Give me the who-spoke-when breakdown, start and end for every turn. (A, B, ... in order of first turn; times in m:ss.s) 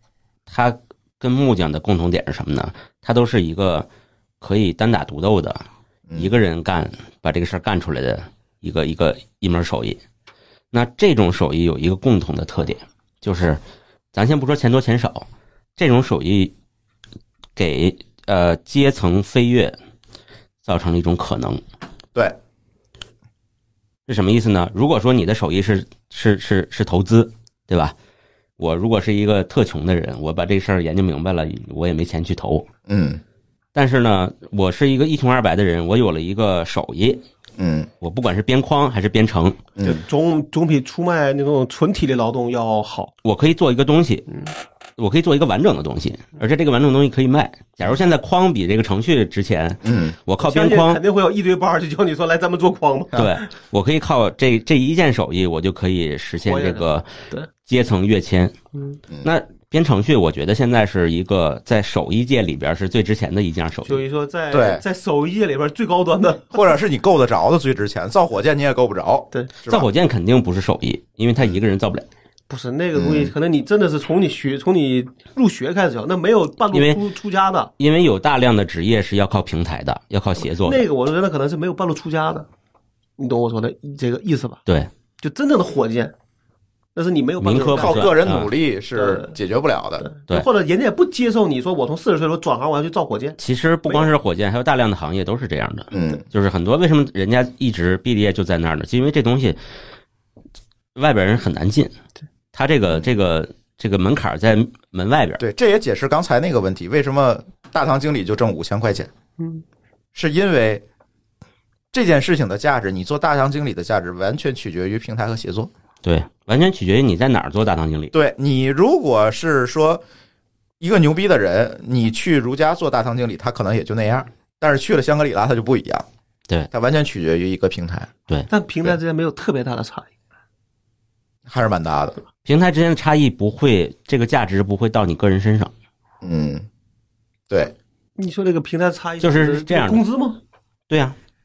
0:00.5-0:03.9 A
0:04.4-0:05.6 A
0:06.1-0:06.3 B
0:06.2-0:10.0 A
0:10.7-0:13.6 A
0:14.1-0:16.5 A
0:17.6-0:19.8 A
0:20.6-0:21.6 A
0:24.1-0:28.0 A
0:28.6-0:32.7 A
0:32.9-0:33.2 B
0:33.7-0:37.2 A
0:37.6-0:37.9 B
0:38.0-0:39.6 A
0:39.8-0:40.0 B
0:39.8-0:43.1 C
0:43.2-0:44.3 A
0:45.0-0:51.0 A
0:49.8-0:50.2 B
0:50.4-0:53.5 C
0:53.2-0:57.1 A
0:56.4-0:57.5 C
0:57.7-0:58.6 A
0:59.2-1:04.0 A
1:03.8-1:06.6 C
1:04.5-1:04.8 B
1:06.5-1:09.9 B
1:09.7-1:12.1 A
1:12.5-1:17.7 C
1:12.9-1:13.3 B
1:16.7-1:17.0 A
1:17.8-1:20.8 A
1:20.6-1:22.5 C
1:23.2-1:24.6 C
1:25.2-1:26.1 C
1:27.0-1:28.1 C
1:27.4-1:28.5 A
1:27.7-1:30.1 B
1:29.0-1:29.4 C
1:30.0-1:34.1 C
1:33.4-1:39.6 A
1:35.9-1:36.2 B
1:41.0-1:41.9 A
1:42.5-1:45.4 A
1:45.4-1:49.1 B
1:50.1-1:50.8 B
1:51.9-1:55.7 B
1:56.0-1:58.1 A
1:58.1-2:00.0 B
2:00.8-2:06.1 B
2:06.7-2:08.1 B
2:08.5-2:10.1 C
2:11.5-2:12.2 B
2:12.5-2:15.7 A
2:16.2-2:16.7 B
2:18.2-2:20.4 C
2:19.2-2:20.0 A
2:20.9-2:21.2 A